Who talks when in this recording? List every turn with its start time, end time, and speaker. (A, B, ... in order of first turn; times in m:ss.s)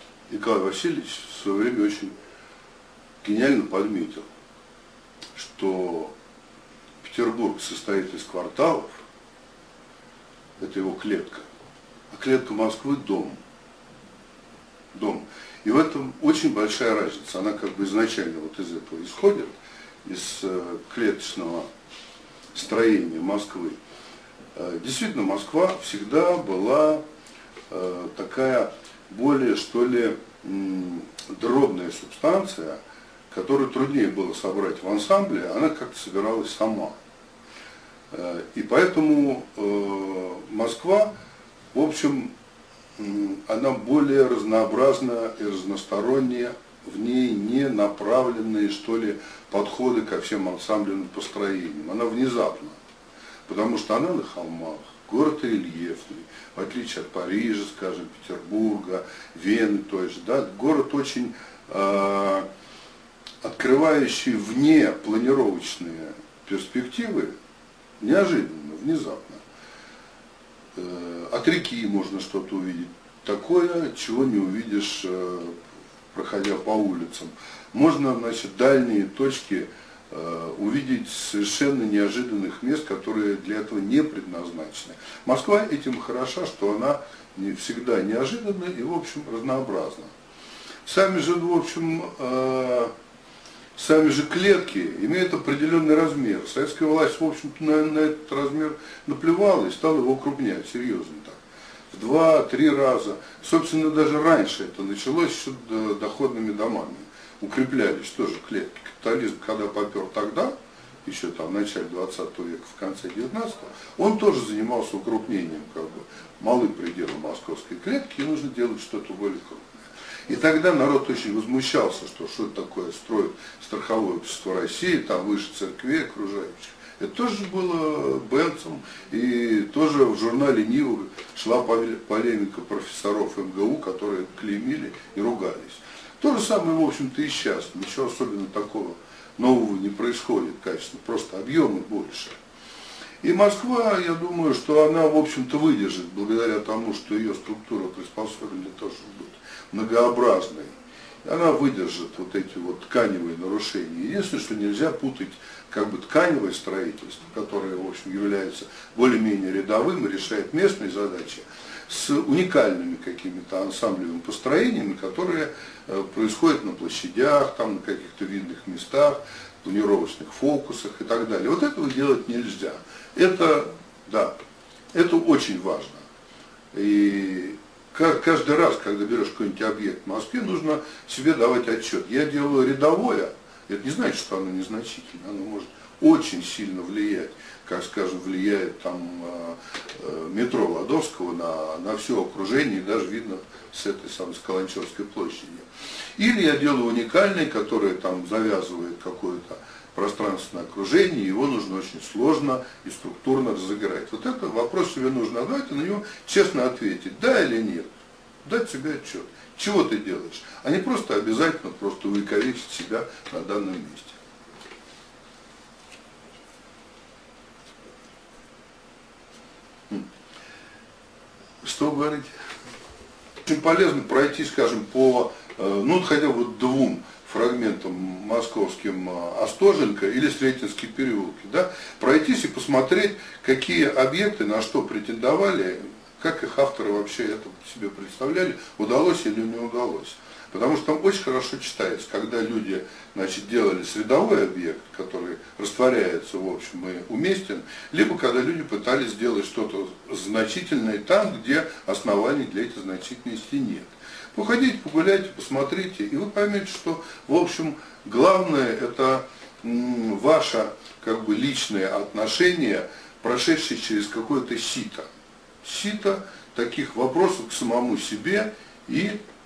0:00.3-0:02.1 A
0:03.2-0:04.2 A
0:05.4-0:06.1 A
0:07.0-0:09.0 A
0:10.6-0:11.5 A
0:12.1-0:13.4 A
0:14.9-0:21.7 A
0:22.5-0:23.8 A
0:24.6-0:27.0 A
0:27.7-0:32.8 A
0:33.3-0:37.0 A
0:38.1-0:41.1 A
0:41.7-0:42.3 A
0:43.0-0:52.8 A
0:53.5-1:02.5 A
1:03.4-1:07.3 A
1:08.0-1:09.4 A
1:10.8-1:15.6 A
1:16.1-1:30.1 A
1:30.8-1:32.9 A
1:33.8-1:50.5 A
1:51.0-2:22.4 A
2:23.2-2:30.7 A
2:31.2-2:54.4 A
2:54.9-2:56.1 A
2:56.7-3:27.9 A
3:28.4-3:34.2 A
3:41.6-3:42.3 A
3:43.4-4:25.1 A
4:25.6-4:29.2 A